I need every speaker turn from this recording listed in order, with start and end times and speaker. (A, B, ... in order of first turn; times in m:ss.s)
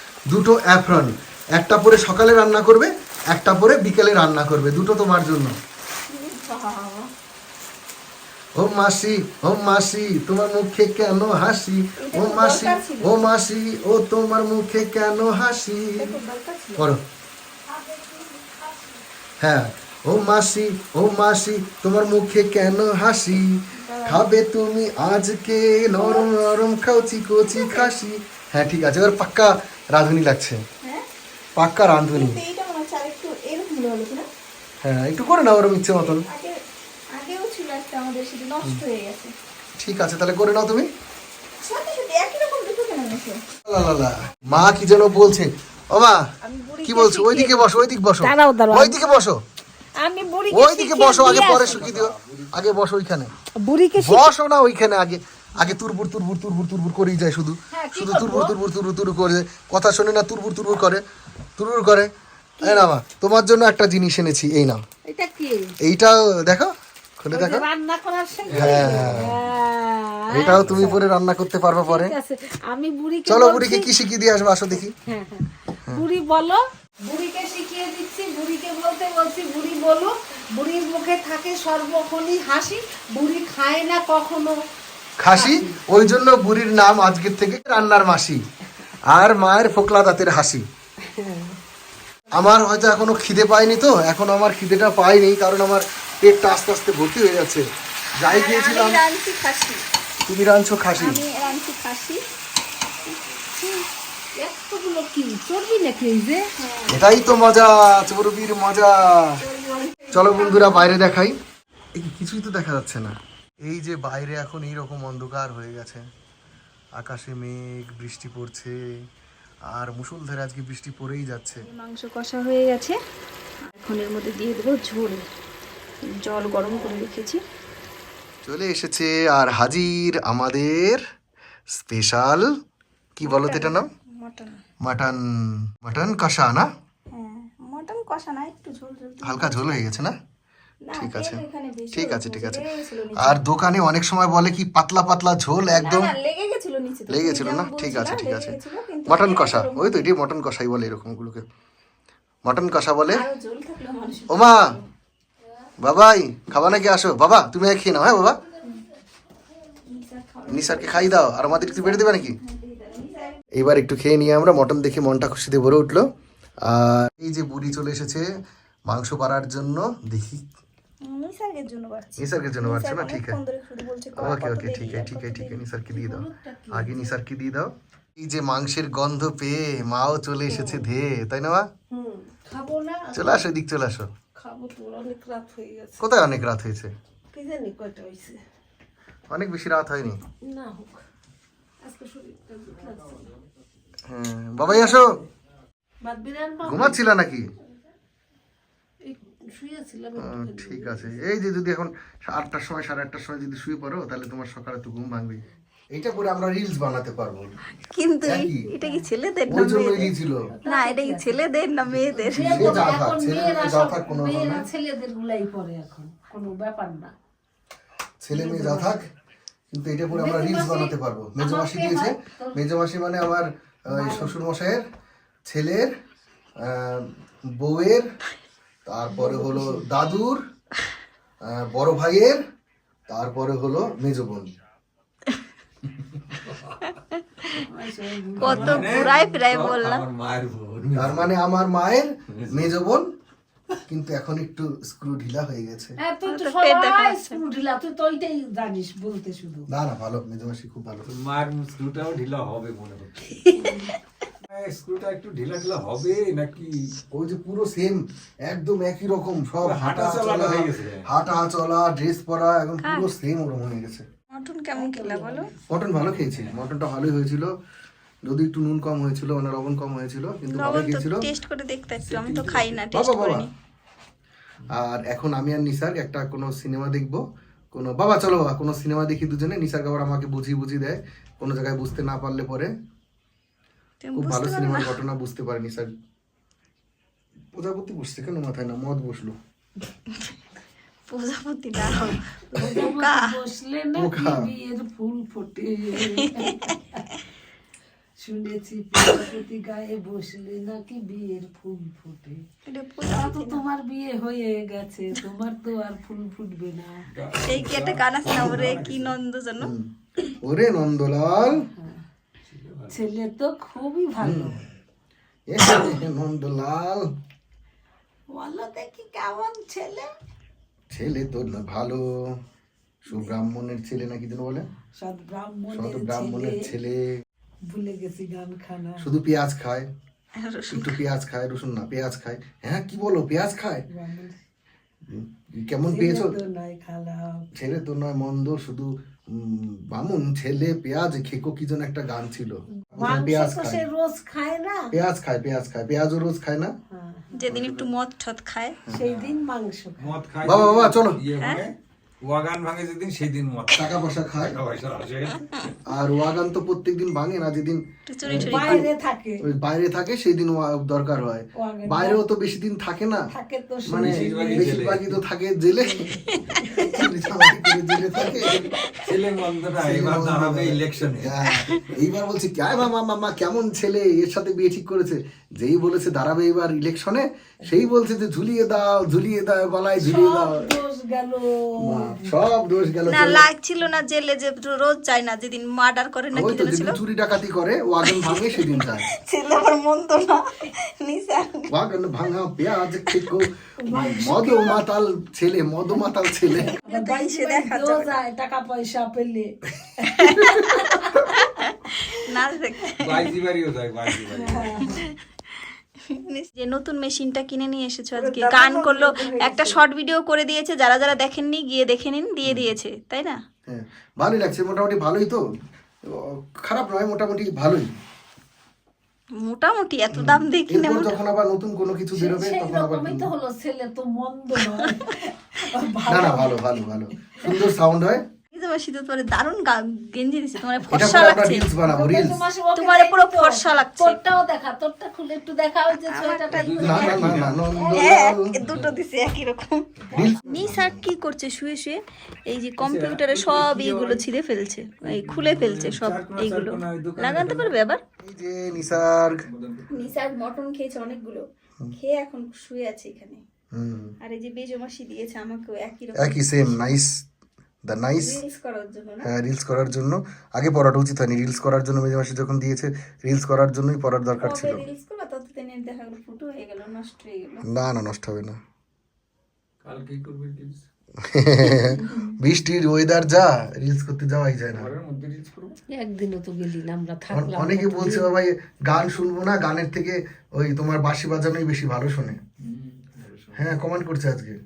0:00.3-0:05.6 A
0:06.1-0:07.1 B
0:08.6-0:16.2 A
0:12.0-0:13.2 B
0:16.0-0:16.9 B
0:16.8-0:17.0 A
0:17.6-0:19.1 C
0:19.4-0:30.6 A
0:23.8-0:24.2 B
0:25.9-0:26.5 B
0:27.5-0:27.9 B
0:31.6-0:32.4 A
0:32.0-0:34.2 B
0:34.8-0:36.3 A
0:36.2-0:36.6 B
0:37.1-0:39.3 B
0:39.8-0:40.9 A
0:41.6-0:43.4 B
0:43.6-0:46.3 A
0:46.4-0:49.0 C
0:46.8-0:49.4 A
0:50.0-0:52.0 C
0:50.5-0:53.3 A
0:51.2-0:52.7 D
0:53.6-0:54.3 C
0:54.0-1:01.0 A
0:57.7-0:58.5 C
1:01.6-1:04.8 A
1:02.6-1:02.9 C
1:05.0-1:05.7 C
1:05.8-1:07.6 A
1:07.3-1:11.0 C
1:08.4-1:09.4 D
1:08.5-1:09.4 A
1:10.3-1:12.1 A
1:10.5-1:10.8 D
1:11.8-1:13.9 C
1:13.2-1:14.9 A
1:14.7-1:24.6 C
1:25.2-1:28.4 A
1:25.3-1:25.8 C
1:29.0-1:30.6 A
1:31.0-1:31.6 C
1:32.3-1:39.0 A
1:38.2-1:39.8 B
1:40.2-1:41.2 A
1:41.0-1:42.2 B
1:43.6-1:43.8 B
1:44.4-1:46.9 C
1:46.9-1:49.4 A
1:49.4-1:51.0 C
1:50.1-1:51.4 A
1:52.0-1:56.1 A
1:57.0-1:58.9 A
1:59.7-2:01.7 A
2:01.6-2:03.0 B
2:03.7-2:05.2 B
2:06.0-2:07.4 B
2:08.4-2:11.0 A
2:11.8-2:12.5 A
2:13.2-2:13.9 A
2:13.2-2:14.6 B
2:14.8-2:16.7 A
2:17.1-2:19.7 B
2:19.2-2:20.2 A
2:20.8-2:23.4 B
2:21.0-2:22.6 A
2:23.2-2:26.1 A
2:25.7-2:30.1 B
2:27.1-2:31.4 A
2:32.4-2:33.2 A
2:33.1-2:34.9 B
2:34.3-2:34.8 A
2:35.8-2:38.4 A
2:39.8-2:43.4 B
2:40.5-2:42.4 A
2:43.5-2:46.1 A
2:46.6-2:48.3 A
2:48.9-2:50.4 A
2:51.0-2:55.6 B
2:52.2-2:53.4 A
2:54.2-3:01.7 A
2:55.9-2:57.2 C
3:00.5-3:00.8 B
3:01.9-3:03.5 C
3:03.1-3:04.1 A
3:04.4-3:06.1 C
3:06.0-3:06.9 A
3:07.3-3:08.4 C
3:09.3-3:10.2 A
3:10.4-3:11.0 C
3:11.8-3:13.3 C
3:14.1-3:15.1 A
3:14.6-3:15.3 C
3:16.0-3:17.0 C
3:16.6-3:17.5 A
3:19.0-3:21.2 C
3:20.2-3:27.5 A
3:27.9-3:30.1 B
3:28.2-3:28.7 A
3:28.8-3:29.1 C
3:29.5-3:30.5 A
3:30.5-3:31.4 C
3:30.6-3:32.9 B
3:32.1-3:37.1 C
3:32.4-3:34.6 A
3:38.2-3:39.1 A
3:38.3-3:39.0 C
3:39.7-3:44.8 A
3:40.1-3:42.6 C
3:43.9-3:44.3 C
3:45.4-3:45.9 A
3:46.6-3:48.1 A
3:48.8-3:50.4 A
3:49.1-3:49.8 C
3:51.4-3:52.4 A
3:53.1-3:54.5 A
3:56.4-3:56.7 D
3:56.8-3:57.6 B
3:57.5-3:59.3 C
3:58.4-4:00.0 B
3:58.4-4:01.3 D
4:00.9-4:03.1 A
4:02.3-4:02.7 D
4:03.9-4:06.0 A
4:06.0-4:09.7 C
4:06.2-4:07.4 B
4:09.7-4:11.1 A
4:11.1-4:13.6 D
4:13.5-4:13.8 C
4:14.4-4:16.9 D
4:17.1-4:24.0 A
4:19.6-4:21.1 D
4:22.8-4:23.1 B
4:24.3-4:25.5 B
4:24.7-4:25.8 C
4:25.7-4:27.5 A
4:28.2-4:31.3 A
4:30.5-4:33.5 B
4:32.0-4:32.8 D
4:32.9-4:33.5 A
4:34.7-4:37.2 A
4:37.7-4:42.7 A
4:44.0-4:45.0 B
4:44.2-4:45.9 A
4:47.5-4:49.4 A
4:51.1-4:53.3 B
4:52.5-4:57.2 C
4:54.0-4:54.5 A
4:56.1-4:56.7 B
4:58.2-5:02.4 C
5:02.6-5:03.6 B
5:03.1-5:07.0 C
5:07.1-5:09.1 D
5:07.4-5:09.7 B
5:09.6-5:09.9 A
5:10.4-5:11.6 A
5:11.7-5:12.0 C
5:12.5-5:13.0 D
5:12.9-5:14.6 C
5:14.2-5:14.6 A
5:15.5-5:17.1 A
5:18.3-5:20.1 C
5:20.9-5:22.4 A
5:23.0-5:24.7 A
5:23.1-5:23.4 C
5:25.0-5:26.7 C
5:25.7-5:27.2 A
5:27.6-5:29.1 C
5:29.0-5:29.9 A
5:30.4-5:31.0 B
5:30.7-5:33.8 A
5:33.9-5:34.4 C
5:35.0-5:36.4 A
5:35.9-5:37.5 C
5:37.5-5:43.8 A
5:42.7-5:44.9 C
5:44.9-5:46.7 A
5:46.9-5:47.5 C
5:47.3-5:48.8 B
5:47.5-5:47.9 A
5:48.9-5:50.1 C
5:49.0-5:49.4 D
5:50.0-5:55.7 D
5:50.4-5:51.2 A
5:51.4-5:51.7 B
5:53.7-5:54.6 A
5:55.8-5:58.9 A
5:58.0-5:58.9 B
5:58.4-5:59.4 C
5:59.4-6:03.3 A
6:01.5-6:02.2 C
6:03.3-6:04.8 C
6:03.8-6:06.1 A
6:03.9-6:05.2 D
6:05.9-6:06.9 C
6:06.2-6:09.0 B
6:06.8-6:08.7 A
6:08.5-6:11.4 D
6:09.8-6:20.8 A
6:11.5-6:11.8 B
6:20.0-6:22.4 C
6:21.8-6:23.4 A
6:23.1-6:27.0 B
6:26.3-6:29.0 A
6:28.0-6:31.7 B
6:31.7-6:36.7 A
6:33.0-6:33.3 B
6:33.8-6:34.8 C
6:36.5-6:41.3 C
6:36.8-6:38.2 B
6:40.1-6:43.3 B
6:43.0-6:44.8 D
6:44.3-6:45.1 B
6:44.3-6:45.0 C
6:46.0-6:53.4 B
6:48.1-6:49.8 C
6:53.6-6:55.4 A
6:56.0-6:57.9 A
6:59.4-7:01.1 B
7:00.1-7:03.3 A
7:02.1-7:06.7 C
7:04.8-7:05.2 B
7:06.1-7:08.2 A
7:07.3-7:07.6 C
7:08.5-7:11.7 B
7:10.9-7:12.4 A
7:11.8-7:18.2 C
7:12.7-7:14.2 B
7:16.1-7:17.2 B
7:16.5-7:17.6 D
7:16.8-7:18.6 A
7:17.9-7:19.8 B
7:18.6-7:19.0 D
7:20.1-7:20.8 C
7:20.1-7:21.0 A
7:20.4-7:28.0 B
7:22.8-7:24.2 D
7:25.0-7:27.7 D
7:28.2-7:29.5 A
7:28.7-7:30.2 D
7:29.9-7:33.4 B
7:33.7-7:34.1 A
7:34.2-7:36.6 B
7:36.2-7:37.2 A
7:37.8-7:38.4 A
7:38.1-7:39.3 B
7:39.2-7:44.8 A
7:44.4-7:47.7 B
7:47.6-7:48.6 A
7:49.8-7:50.8 D
7:51.2-7:54.9 A
7:51.7-7:52.4 B
7:54.7-7:55.8 D
7:55.9-7:58.3 C
7:57.3-8:02.4 A
8:02.6-8:03.8 D
8:03.6-8:04.6 A